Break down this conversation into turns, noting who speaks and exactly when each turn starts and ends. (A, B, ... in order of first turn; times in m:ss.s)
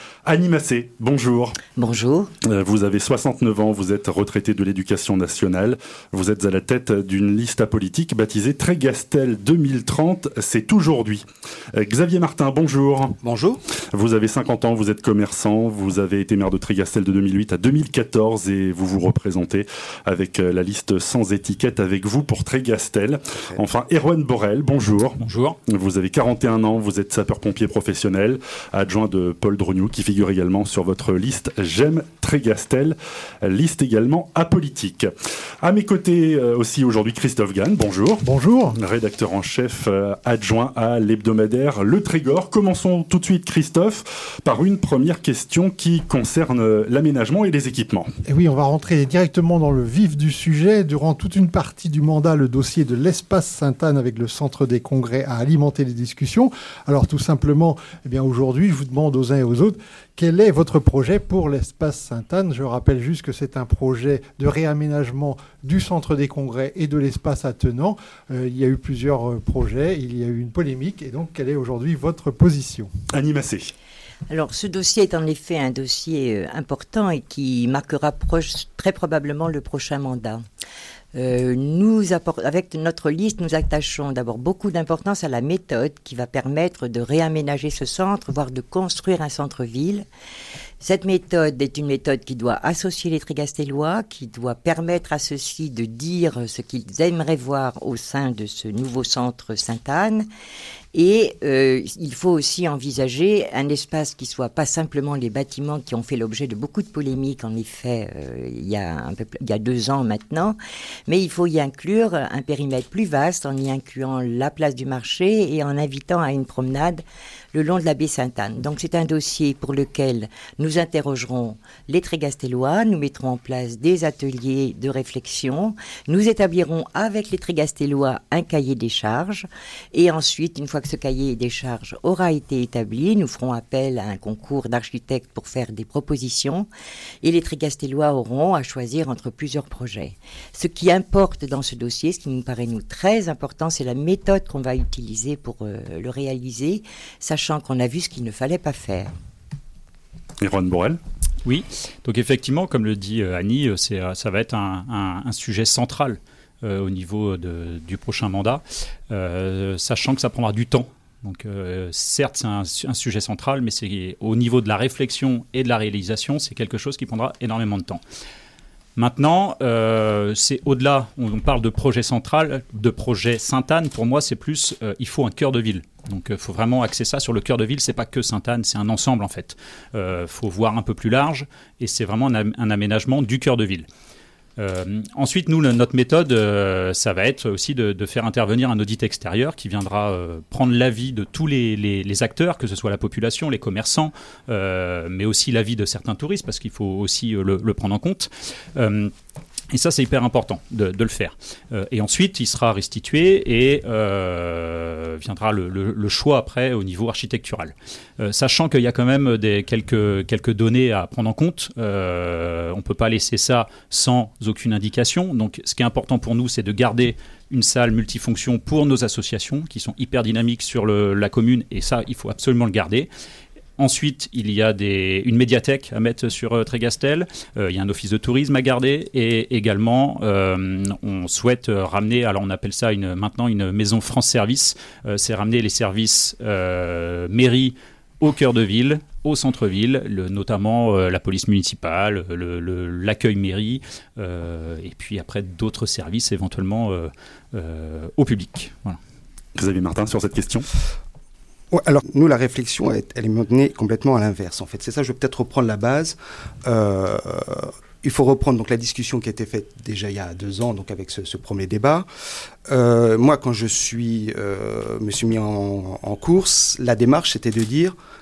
0:00.2-0:01.6 A
0:01.8-0:02.3 B
0:02.4-0:13.2 A
0:13.2-0:13.6 C
0:13.9-0:35.1 A
0:25.2-0:25.6 D
0:35.6-0:48.1 A
0:38.2-0:38.8 E
0:48.2-1:12.9 E
1:13.1-1:13.7 A
1:14.3-1:20.4 B
1:21.1-1:30.0 B
1:30.8-1:40.2 B
1:40.9-2:16.7 B
2:17.2-2:29.1 B
2:30.4-2:31.0 A
2:31.4-2:48.0 D
2:49.0-3:03.9 D
3:04.6-3:19.1 D
3:19.7-3:43.1 D
3:43.8-4:09.0 D
4:09.6-4:10.7 A
4:11.7-4:22.0 C
4:22.7-4:27.9 C